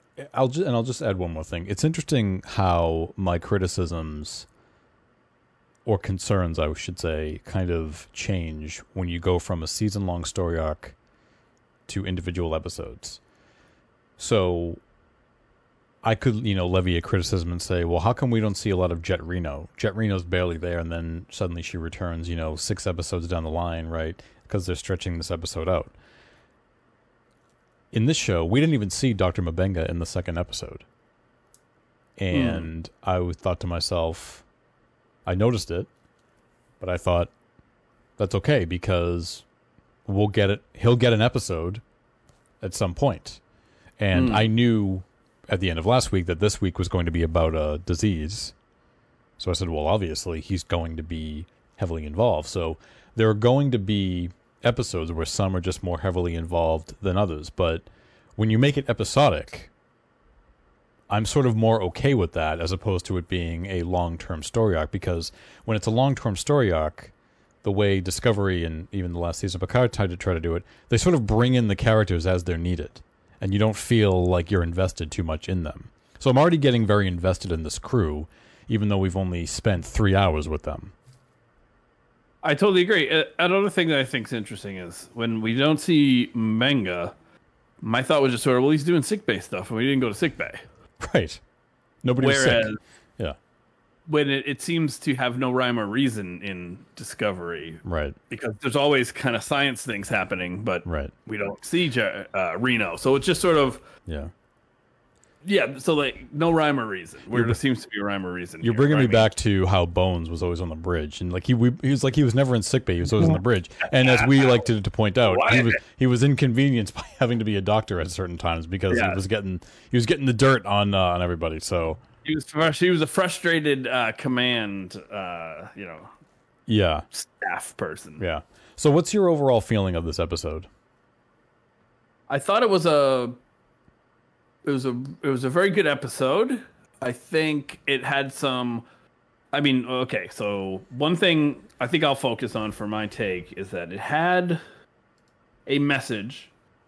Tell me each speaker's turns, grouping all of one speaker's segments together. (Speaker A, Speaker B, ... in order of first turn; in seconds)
Speaker A: 0.2-4.5, 5.9-10.9, 11.9-13.2, 14.2-14.8, 16.0-25.9, 27.9-30.9, 32.2-34.5, 35.2-35.9, 36.8-37.3, 38.2-39.5, 40.1-41.8, 42.6-43.4, 44.0-48.5, 49.4-59.7, 61.1-80.9, 91.0-91.4, 92.0-93.4, 97.8-98.2, 100.8-101.1, 104.1-104.3, 107.3-107.6, 108.6-122.0, 126.7-127.1, 128.2-130.7
Speaker B: 32.3-32.7, 44.1-44.5, 82.4-87.1, 87.8-90.6, 92.2-92.8, 94.1-103.8, 105.4-109.3, 113.9-114.6, 115.2-115.8, 118.9-119.2, 122.2-126.1, 127.1-128.2, 132.3-133.4, 134.7-138.8, 139.5-144.6, 145.7-146.5